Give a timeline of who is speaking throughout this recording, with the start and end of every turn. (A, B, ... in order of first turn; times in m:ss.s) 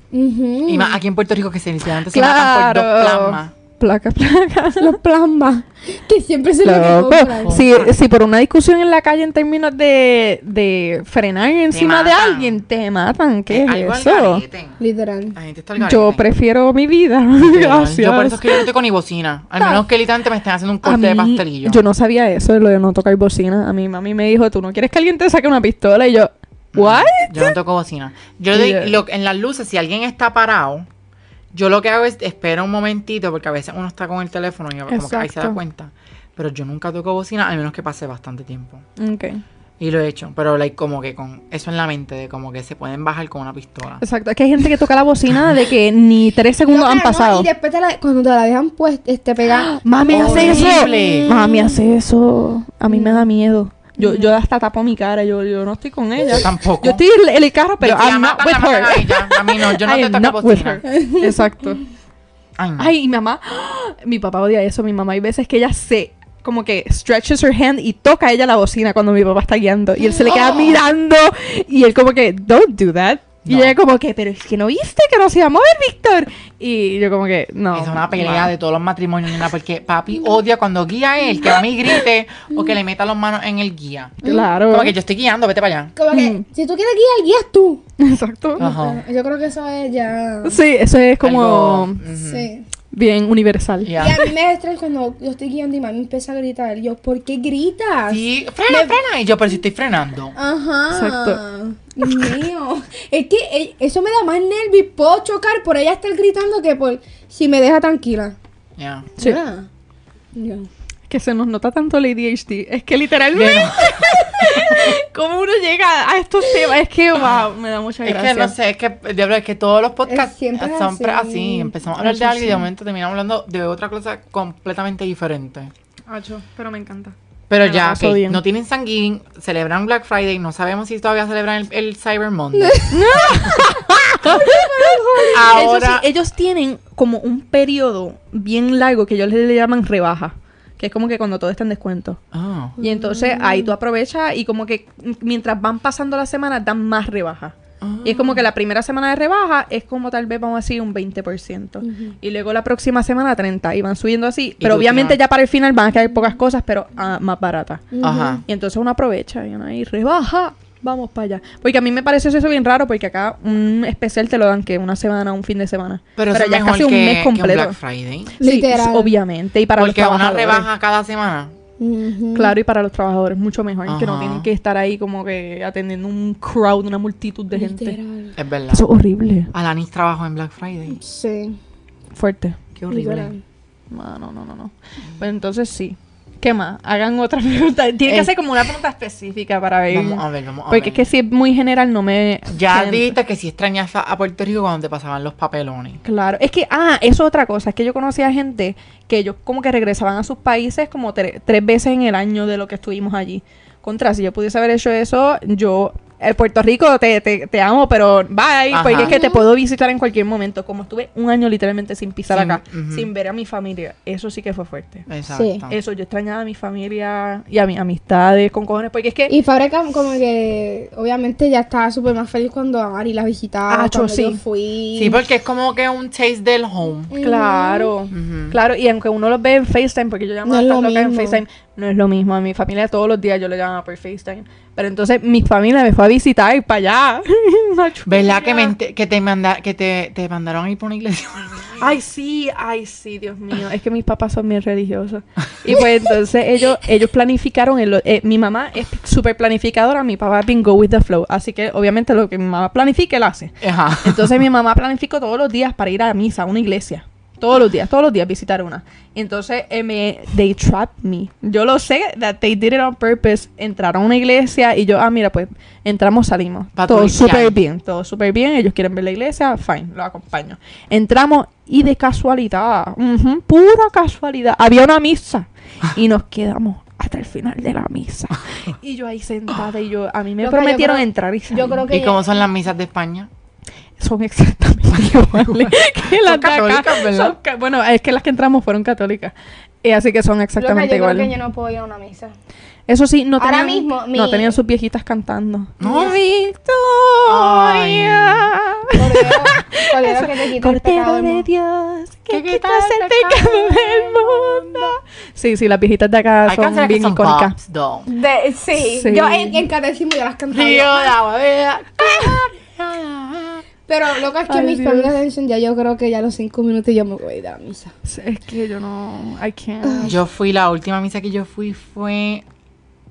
0:00.1-0:01.0 A
0:00.6-0:03.5 B
0:02.1-0:05.0 C
0:04.8-0:07.6 A
0:06.6-0:14.4 C
0:07.4-0:08.0 B
0:11.7-0:12.6 B
0:13.5-0:14.8 B
0:14.8-0:15.4 A
0:15.3-0:16.2 B
0:15.8-0:18.6 C
0:17.4-0:21.8 B
0:20.8-0:27.5 C
0:26.7-0:30.9 B
0:28.5-0:29.0 C
0:31.5-0:38.8 B
0:34.9-0:35.6 C
0:39.0-0:39.4 C
0:39.8-0:44.0 B
0:44.0-0:47.5 C
0:46.7-0:51.8 A
0:49.5-1:01.8 C
0:50.1-0:51.3 B
0:52.9-0:53.3 A
0:54.0-0:54.4 A
0:56.3-0:57.0 B
0:57.8-1:00.8 B
1:00.8-1:01.7 A
1:02.6-1:02.9 B
1:02.8-1:18.5 C
1:10.0-1:10.8 A
1:13.4-1:13.8 B
1:17.7-1:25.9 B
1:24.2-1:24.5 A
1:24.2-1:24.9 C
1:26.0-1:27.8 A
1:26.1-1:26.4 C
1:28.0-1:28.7 C
1:28.6-1:29.0 B
1:28.6-1:30.6 A
1:30.4-1:32.0 C
1:31.2-1:32.5 B
1:32.1-1:32.7 A
1:32.9-1:34.0 C
1:33.8-1:34.2 B
1:34.0-1:38.9 A
1:38.1-1:40.4 B
1:40.4-1:48.4 A
1:40.9-1:41.4 C
1:42.0-1:42.3 C
1:48.8-1:49.1 B
1:49.2-1:49.7 A
1:50.3-1:50.7 A
1:51.1-1:58.5 C
1:53.3-1:54.9 B
1:58.0-2:05.7 B
2:00.0-2:01.8 A
2:02.0-2:02.6 C
2:06.1-2:08.4 C
2:07.5-2:13.6 B
2:12.5-2:13.2 A
2:12.9-2:22.2 C
2:14.3-2:15.7 A
2:15.3-2:16.0 B
2:22.3-2:22.8 B
2:22.8-2:47.8 C
2:22.8-2:23.7 A
2:27.8-2:28.5 B
2:31.8-2:32.1 A
2:34.6-2:35.2 B
2:37.9-2:38.4 A
2:38.0-2:38.4 B
2:46.2-2:48.3 B
2:48.4-2:49.1 A
2:48.4-2:50.7 C
2:49.8-2:51.5 B
2:51.8-2:52.5 A
2:52.3-2:58.0 C
2:53.9-2:54.5 B
2:57.5-2:58.3 A
2:58.4-2:58.9 B
2:58.7-2:59.5 C
2:59.5-3:01.0 B
3:00.9-3:01.6 A
3:02.1-3:02.6 C
3:02.8-3:03.3 B
3:02.9-3:03.4 A
3:03.9-3:13.2 C
3:08.0-3:08.3 B
3:09.9-3:11.1 B
3:12.5-3:16.0 B
3:16.0-3:35.1 C
3:28.7-3:29.1 B
3:28.9-3:29.4 A
3:32.3-3:33.1 B
3:35.1-3:35.7 B
3:35.3-3:35.6 A
3:35.7-3:39.3 C
3:39.3-3:45.2 A
3:43.7-3:44.4 C
3:44.9-3:47.1 B
3:47.1-3:47.9 A
3:47.2-3:58.7 C
3:48.1-3:48.6 B
3:50.4-3:51.4 A
3:58.0-4:01.8 B
4:01.8-4:41.8 C
4:13.6-4:14.4 B
4:26.7-4:27.6 B
4:40.4-4:42.2 A
4:41.9-4:43.3 B
4:44.0-4:51.3 C
4:45.4-4:47.4 B
4:50.6-4:52.3 A
4:52.9-5:07.5 C
4:53.4-4:54.6 A
4:55.8-4:56.2 B
4:57.3-4:58.5 B
4:58.9-5:01.4 A
5:02.3-5:05.0 B
5:06.4-5:08.1 B
5:08.1-5:11.2 A
5:08.8-5:09.6 C
5:10.5-5:13.6 B
5:13.9-5:17.9 A
5:14.5-5:15.1 C
5:18.0-5:20.1 C
5:19.8-5:20.1 A
5:20.0-5:22.4 B